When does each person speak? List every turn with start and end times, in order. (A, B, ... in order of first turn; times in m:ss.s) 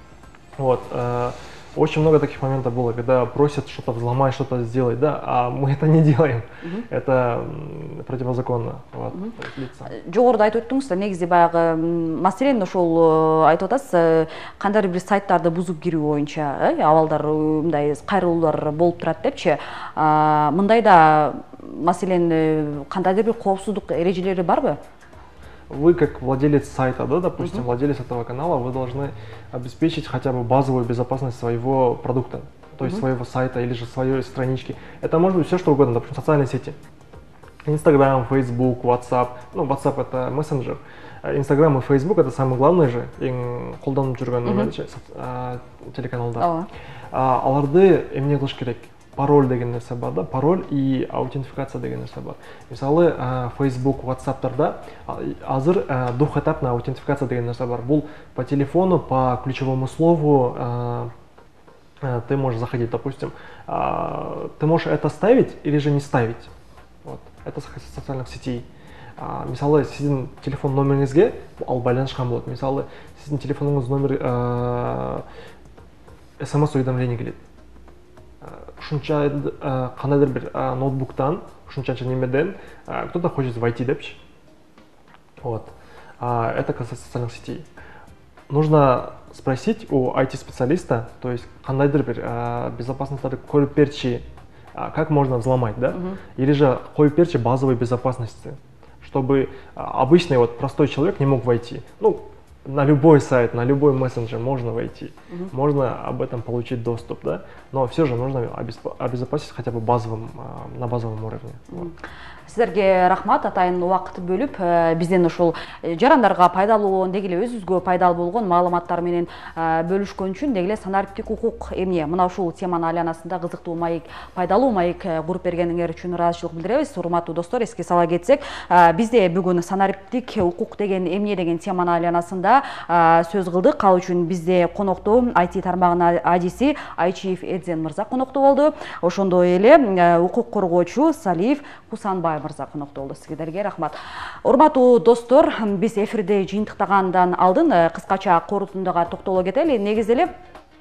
0:00.6-0:09.9 A
0:06.6-0:06.9 B
0:09.9-0:24.8 B
0:25.7-0:36.8 A
0:27.4-0:27.6 B
0:37.6-0:46.5 A
0:44.4-0:44.7 B
0:46.4-0:46.7 B
0:47.1-1:01.1 A
1:02.0-1:06.5 A
1:07.0-1:08.7 A
1:09.2-1:15.2 A
1:16.4-1:17.4 A
1:18.4-1:24.2 A
1:25.4-1:27.7 A
1:28.5-1:51.9 A
1:35.9-1:36.2 B
1:52.5-2:30.3 B